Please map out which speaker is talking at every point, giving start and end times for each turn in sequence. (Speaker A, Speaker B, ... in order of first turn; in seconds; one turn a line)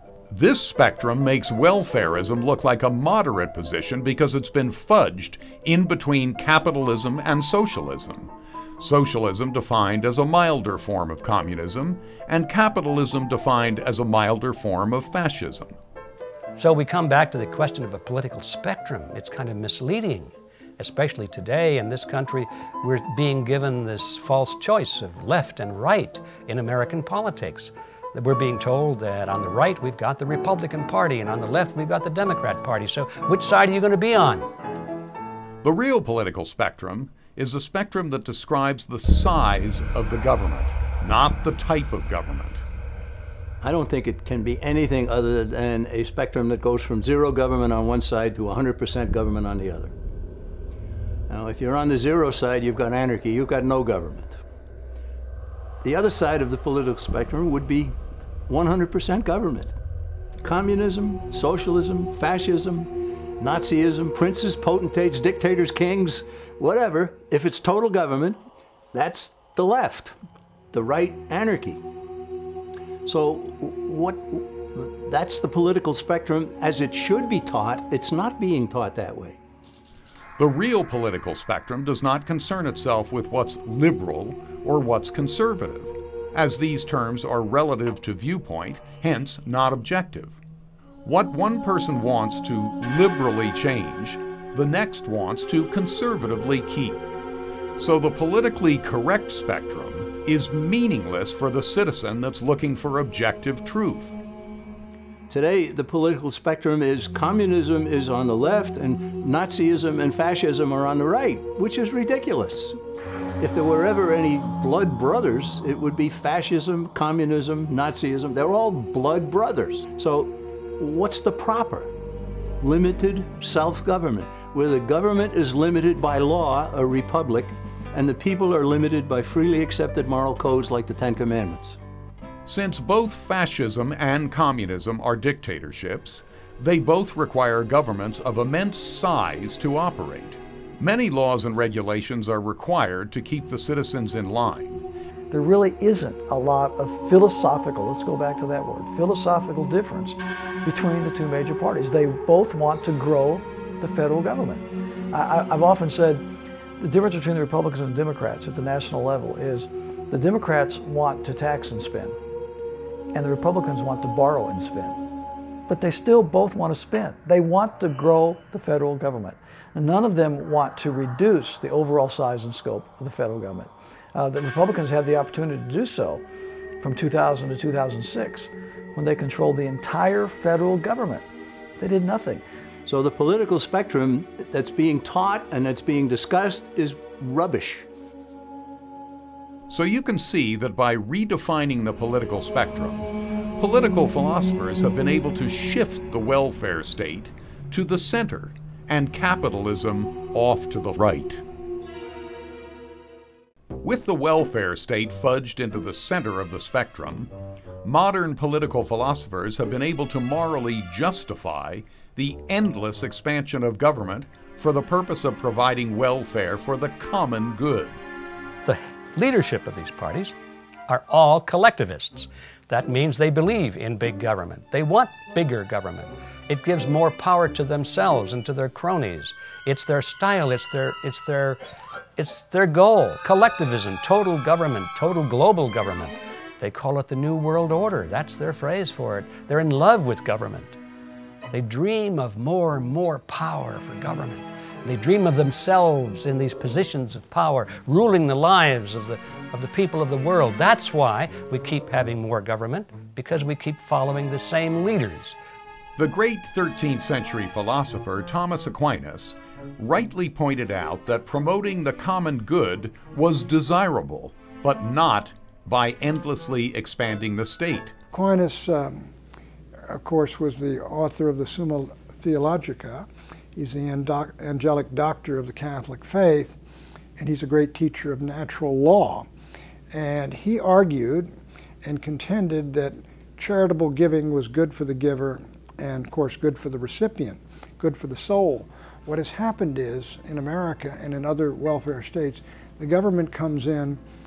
Speaker A: 0.3-15.8
Speaker B: 16.6-34.5
Speaker A: 35.6-42.6
Speaker C: 43.6-49.9
Speaker C: 51.3-54.4
Speaker C: 55.8-58.0
Speaker C: 58.5-59.7
Speaker C: 60.4-62.9
Speaker C: 63.4-68.4
Speaker C: 68.9-70.2
Speaker C: 70.7-71.8
Speaker C: 73.0-79.4
Speaker A: 80.4-90.4
Speaker A: 91.0-97.1
Speaker A: 97.8-104.2
Speaker C: 105.3-112.8
Speaker C: 113.4-121.9
Speaker C: 122.6-131.8
Speaker A: 132.4-144.8
Speaker D: 145.3-156.2
Speaker D: 156.8-162.2
Speaker D: 163.1-165.0
Speaker D: 165.7-176.2
Speaker D: 176.8-181.3
Speaker D: 181.8-182.4
Speaker C: 182.9-187.9
Speaker A: 189.7-201.4
Speaker A: 203.8-207.3
Speaker A: 207.8-218.0
Speaker B: 218.6-220.4
Speaker B: 220.9-231.6
Speaker B: 232.2-240.8
Speaker B: 241.5-255.4
Speaker A: 256.0-267.9
Speaker E: 268.1-269.1
Speaker E: 269.9-276.6
Speaker E: 277.2-279.3
Speaker E: 279.9-294.0